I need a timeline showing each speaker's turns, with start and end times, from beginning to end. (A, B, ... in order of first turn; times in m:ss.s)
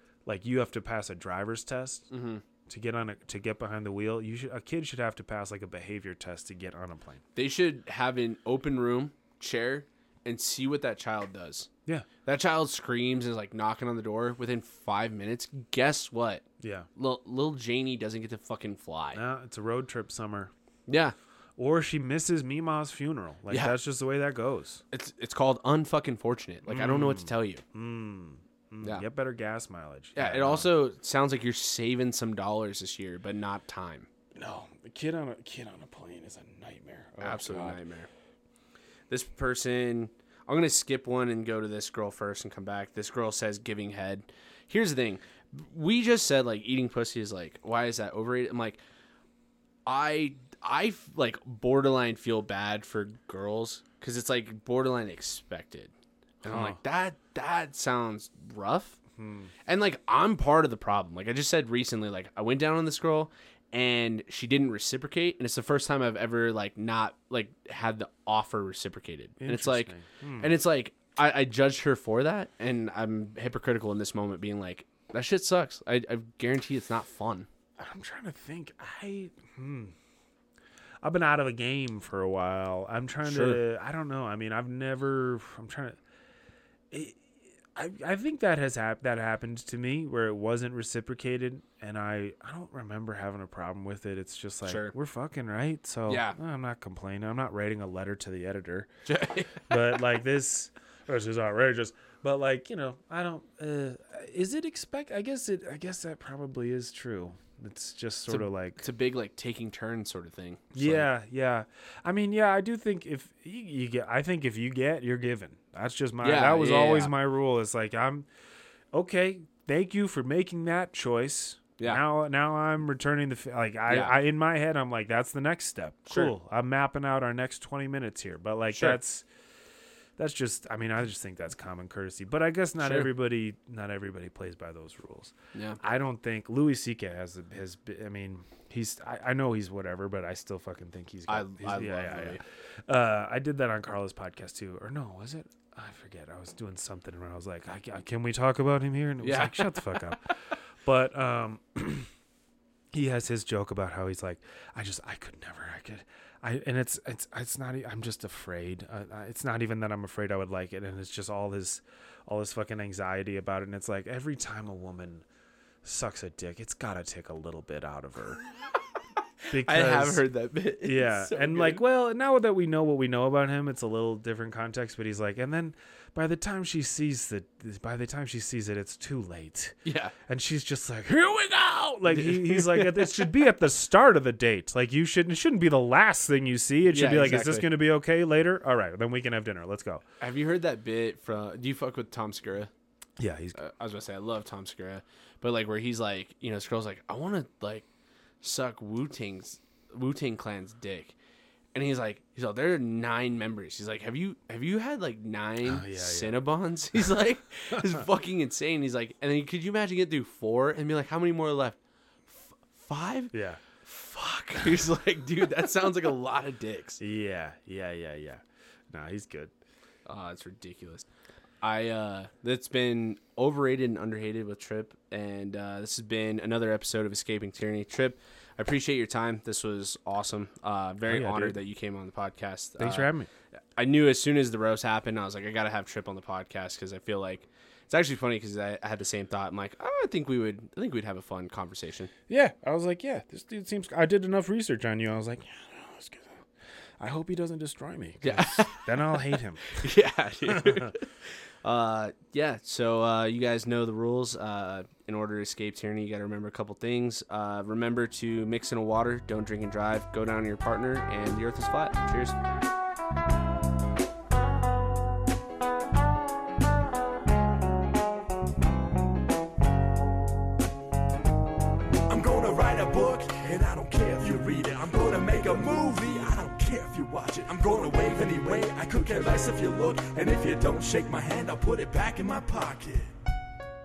0:00.2-0:02.1 A
0:02.1-0:02.4 B
0:02.7-0:07.2 A
0:07.4-0:11.7 B
0:12.2-0:16.4 B
0:16.6-0:16.9 A
0:17.0-0:19.2 B
0:19.1-0:20.5 A
0:20.9-0:21.1 B
0:21.6-0:24.8 A
0:23.5-0:23.7 B
0:24.9-0:27.6 B
0:26.6-0:30.8 A
0:30.1-0:34.1 B
0:34.3-0:37.8 A
0:37.2-0:38.1 B
0:39.1-0:48.8 B
0:49.8-0:59.0 B
0:56.4-0:56.8 A
0:59.2-0:59.5 A
0:59.6-1:17.5 B
1:09.4-1:10.6 A
1:17.8-1:19.9 A
1:21.0-1:26.0 A
1:23.2-1:23.6 B
1:26.9-1:27.2 A
1:27.7-1:38.9 A
1:34.6-1:34.9 B
1:36.1-1:36.4 B
1:39.0-1:39.7 B
1:39.7-1:48.8 A
1:48.3-1:51.1 B
1:50.7-1:58.3 A
1:56.2-1:57.1 B
1:58.9-2:09.2 A
2:03.9-2:04.2 B
2:08.7-2:09.0 B
2:10.2-2:30.3 A
2:12.8-2:13.1 B
2:15.5-2:15.8 B
2:21.3-2:22.4 B
2:29.2-2:30.3 B
2:30.8-2:32.1 A
2:32.9-2:45.2 A
2:45.8-2:48.4 A
2:49.4-2:51.8 B
2:49.5-2:50.2 A
2:50.8-3:10.0 A
2:59.8-3:00.1 B
3:02.1-3:03.3 B
3:06.9-3:07.7 B
3:10.2-3:12.7 B
3:13.2-3:13.6 A
3:13.5-3:17.8 B
3:18.4-3:21.2 B
3:21.7-3:33.3 B
3:25.6-3:26.4 A
3:27.7-3:28.0 A
3:33.3-3:33.6 A
3:33.8-3:37.0 B
3:34.5-3:34.8 A
3:37.0-3:39.5 A
3:40.1-3:41.0 B
3:41.6-3:53.1 B
3:51.0-3:51.6 A
3:52.8-3:53.3 A
3:53.8-4:02.1 B
4:02.3-4:06.4 A
4:07.0-4:09.8 A
4:08.2-4:22.4 B
4:10.5-4:10.9 A
4:32.1-4:43.2 C